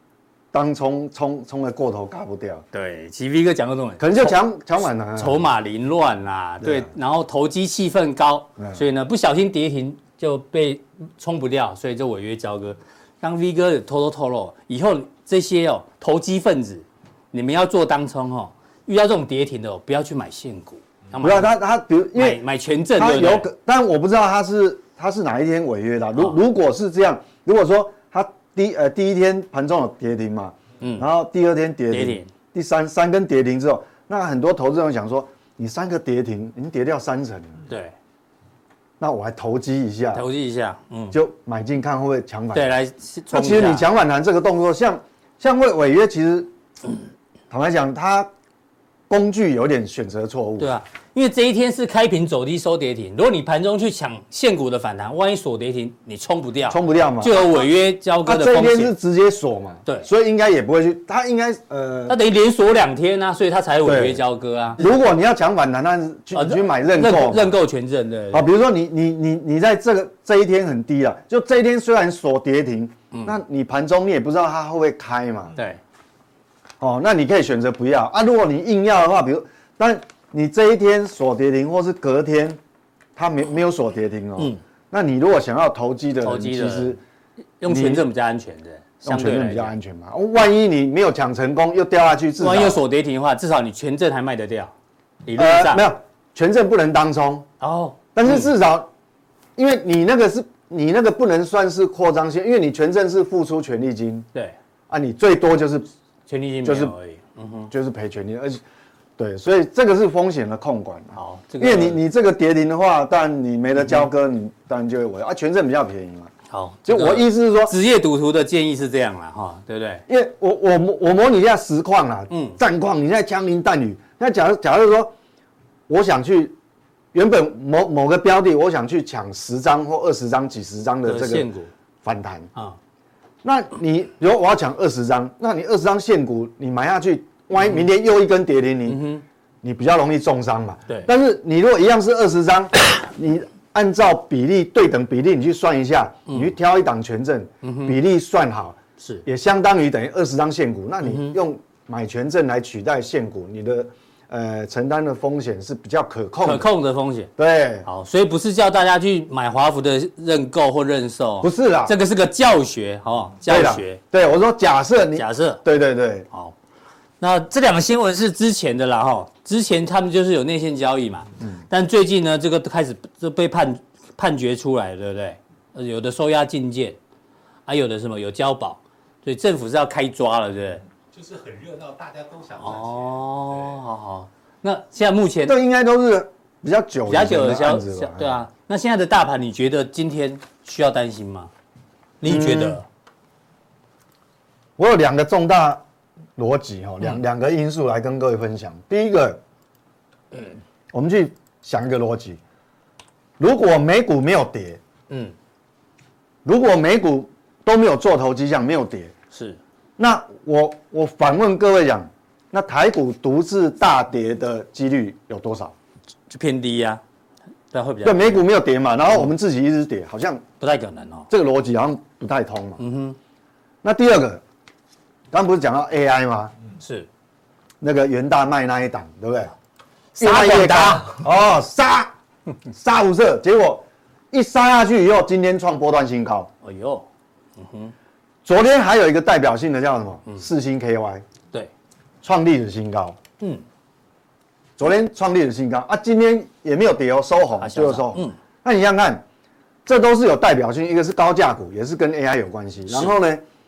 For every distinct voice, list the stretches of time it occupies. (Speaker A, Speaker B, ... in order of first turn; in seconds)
Speaker A: 0.5-2.6, 4.0-5.4, 6.6-6.9, 21.2-22.4, 23.0-37.6, 39.0-40.2, 41.1-42.7, 43.3-46.5, 47.5-48.3, 49.1-50.7, 56.7-57.6, 58.2-62.1, 63.8-64.2, 64.8-67.5, 68.3-75.5, 76.8-82.6, 83.2-87.0, 87.7-88.0, 89.0-92.8, 95.3-97.5, 98.1-98.9, 99.6-104.2, 104.9-105.9, 106.6-106.9, 107.7-108.6, 109.2-116.3, 116.8-117.7, 120.1-125.1, 125.9-126.5, 127.1-131.5, 132.0-132.5, 133.4-139.0, 139.6-156.7, 157.4-157.9, 161.4-161.9, 163.5-166.3, 185.4-188.4, 192.2-192.8, 194.8-195.8, 196.4-199.4, 200.9-202.4, 203.4-204.8, 206.4-209.1, 210.0-215.7, 218.0-220.4, 221.3-222.8, 223.8-224.4, 225.3-226.5, 227.8-229.5, 230.2-232.1, 232.7-236.5, 238.4-241.2, 242.2-243.2, 244.8-249.2, 249.8-253.4
Speaker B: 2.7-4.4, 5.2-21.5, 22.1-23.5, 30.8-31.1, 31.9-32.3, 37.7-37.9, 40.1-41.1, 42.5-43.9, 50.6-58.9, 62.1-64.8, 66.3-68.5, 86.2-86.9, 87.6-89.7, 92.4-94.7, 95.2-95.8, 97.6-98.5, 106.3-107.7, 111.2-112.0, 113.8-114.0, 116.5-120.0, 122.3-122.6, 131.1-131.7, 138.9-139.2, 147.6-147.9, 149.0-149.2, 151.0-151.3, 156.4-157.3, 157.8-164.0, 165.2-165.6, 167.2-177.0, 177.7-180.8, 182.6-185.6, 187.1-191.5, 192.2-192.8, 205.1-205.3, 209.3-209.6, 216.3-217.0, 217.7-218.4, 220.6-221.3, 222.8-223.2, 226.8-227.1, 230.2-231.2, 236.6-237.0, 237.6-237.9, 247.6-248.3
Speaker C: 181.1-183.1